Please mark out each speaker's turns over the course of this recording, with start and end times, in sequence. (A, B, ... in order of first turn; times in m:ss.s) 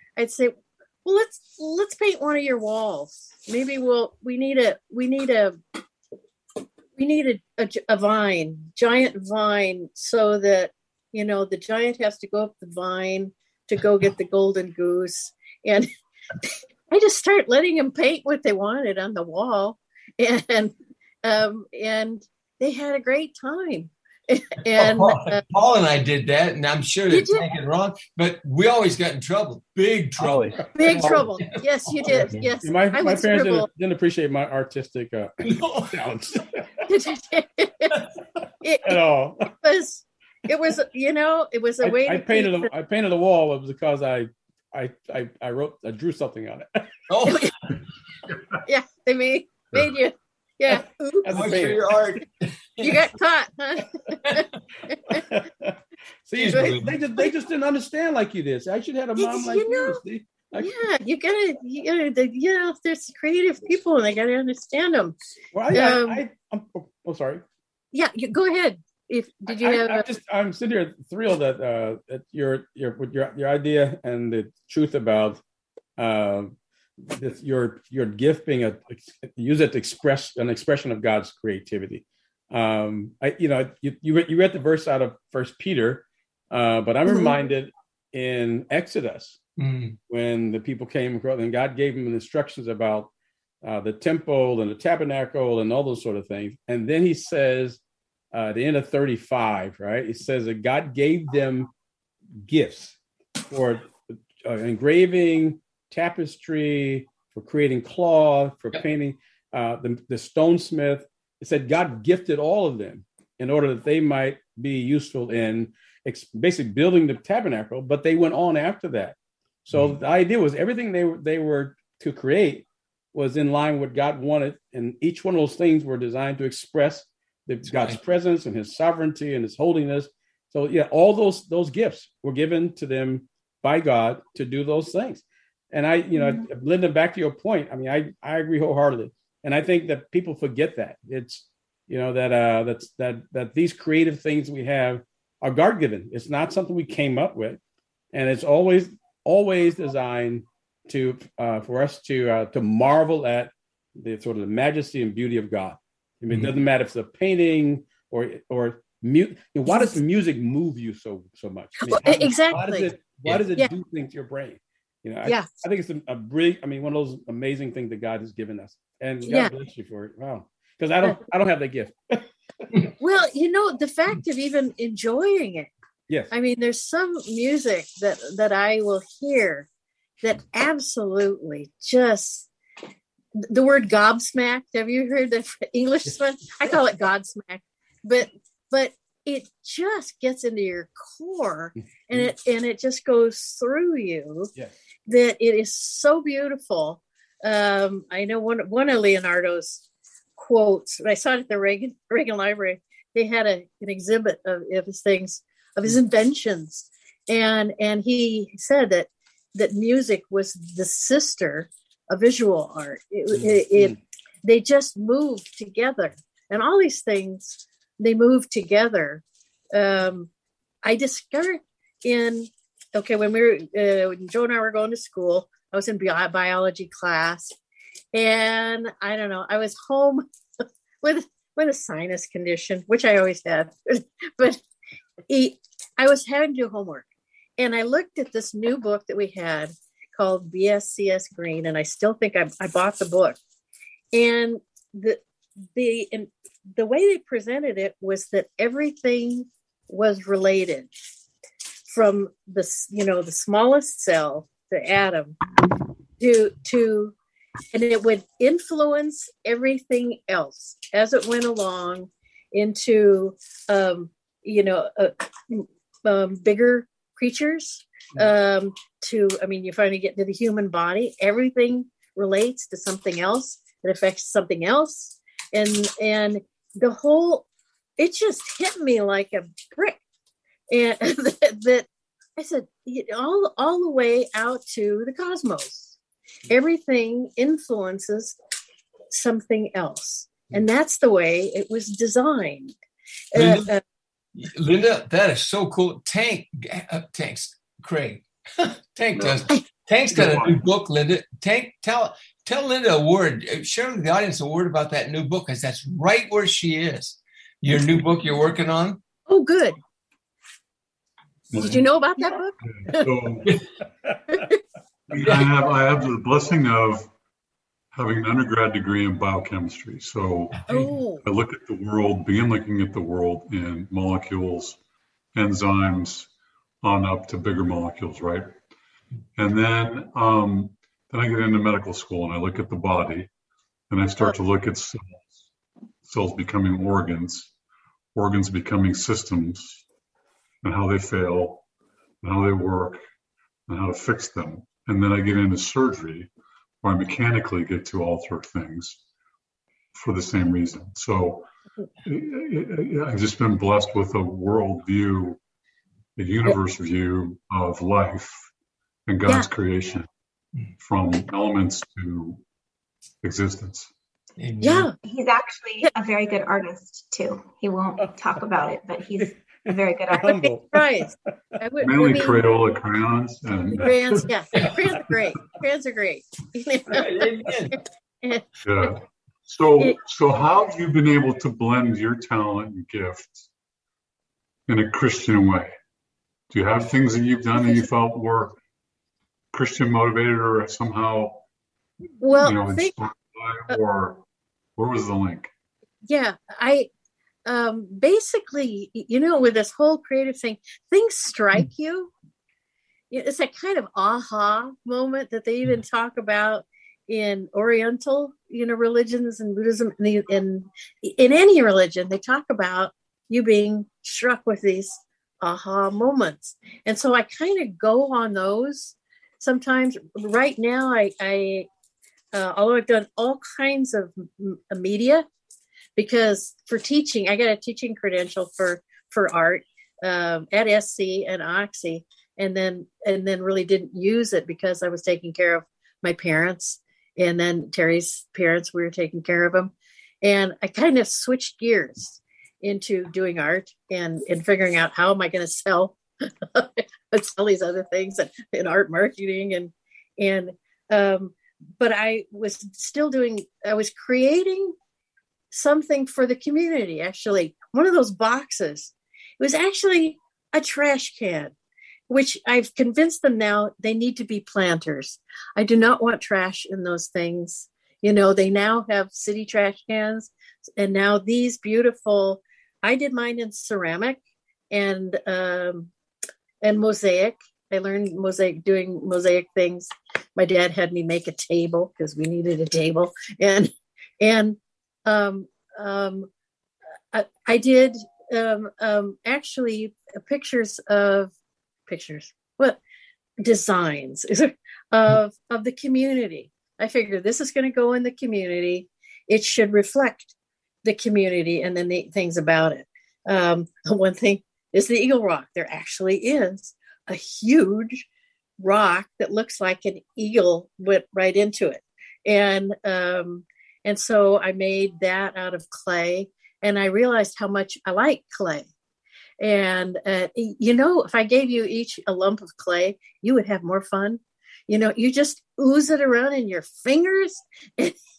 0:00.2-0:05.6 A
0:07.0-0:15.9 A
0:16.9-0:25.4 A
0:24.6-0:32.3 B
0:27.1-0:27.4 A
0:30.2-0:31.3 C
0:30.7-0:33.7 A
0:32.6-0:36.6 C
0:35.4-0:36.0 B
0:36.9-0:38.0 A
0:38.6-0:39.0 A
0:38.8-0:39.5 C
0:39.5-0:42.7 A
0:41.8-0:46.9 C
0:47.1-0:47.8 B
0:47.2-0:47.5 A
0:48.6-0:51.3 A
0:51.2-0:51.8 C
0:51.2-0:53.1 B
0:52.8-0:55.2 A
0:55.1-1:00.8 C
0:56.4-0:57.0 B
0:56.5-0:57.3 A
0:59.2-1:00.0 A
1:00.6-1:05.1 A
1:05.5-1:07.4 C
1:05.7-1:06.2 A
1:07.9-1:10.0 A
1:09.5-1:15.4 C
1:16.0-1:16.5 C
1:17.1-1:29.4 C
1:27.1-1:27.3 D
1:29.6-1:30.0 B
1:30.1-1:33.1 C
1:33.6-1:37.8 C
1:38.3-1:41.7 C
1:42.4-2:27.6 C
2:07.7-2:08.0 B
2:16.1-2:16.5 D
2:28.1-2:52.3 C
2:41.8-2:42.9 A
2:49.3-2:49.5 A
2:53.0-2:55.7 A
2:56.3-2:59.7 A
3:00.2-3:02.5 A
3:03.5-3:14.5 A
3:15.1-3:19.8 A
3:20.4-3:39.2 A
3:39.7-3:40.3 A
3:40.8-3:47.5 A
3:48.1-3:50.2 A
3:51.0-3:54.6 A
3:55.3-3:57.0 A
3:57.6-4:03.4 A
4:04.1-4:05.2 A
4:05.7-4:10.9 A
4:11.9-4:15.4 A
4:16.2-4:17.1 A
4:17.7-4:37.4 A
4:38.0-4:40.0 A
4:40.7-4:46.0 A
4:46.5-4:48.4 A
4:49.1-4:52.7 A
4:53.3-4:53.8 A
4:53.3-4:53.7 B
4:54.3-5:09.0 B
4:59.1-4:59.4 E
5:00.1-5:00.6 E
5:09.3-5:09.8 A
5:11.5-5:11.8 E
5:11.6-5:13.0 A
5:12.7-5:13.6 E
5:14.3-5:14.6 A
5:15.1-5:17.1 E
5:17.9-5:24.8 E
5:20.7-5:21.2 A
5:25.3-5:26.3 E
5:26.8-5:28.6 E
5:29.4-5:33.3 E
5:33.9-5:35.3 E
5:36.0-5:37.5 E
5:38.1-5:39.8 E
5:40.6-5:41.6 E
5:42.2-5:43.0 E
5:43.7-5:46.3 E
5:46.8-5:49.0 E
5:49.9-5:51.5 E
5:52.0-5:55.4 E
5:56.2-5:58.5 E
5:59.1-6:00.1 E
6:00.8-6:02.4 E
6:03.2-6:03.9 E
6:04.4-6:04.9 B
6:04.6-6:04.9 A
6:05.0-6:10.4 D
6:09.2-6:11.0 C
6:10.1-6:12.4 A
6:11.8-6:14.2 E
6:13.7-6:17.3 A
6:16.9-6:17.8 B
6:18.2-6:18.9 A
6:18.6-6:23.5 E
6:24.7-6:25.7 E
6:26.5-6:28.6 E
6:27.6-6:27.8 A
6:29.5-6:31.4 E
6:32.2-6:33.0 A
6:32.4-6:34.2 E
6:34.8-6:35.5 E
6:36.1-6:36.9 A
6:37.4-6:42.1 A
6:43.1-7:01.7 A
7:02.3-7:05.2 A
7:06.0-7:19.7 A
7:20.2-7:26.0 A
7:26.5-7:34.7 A
7:35.5-7:41.5 A
7:42.1-7:54.2 A
7:54.7-7:55.9 A
7:56.6-8:06.3 A
8:07.1-8:11.3 A
8:11.9-8:12.8 A
8:13.4-8:20.3 A
8:20.8-8:28.0 A
8:28.6-8:38.7 A
8:39.4-8:48.0 A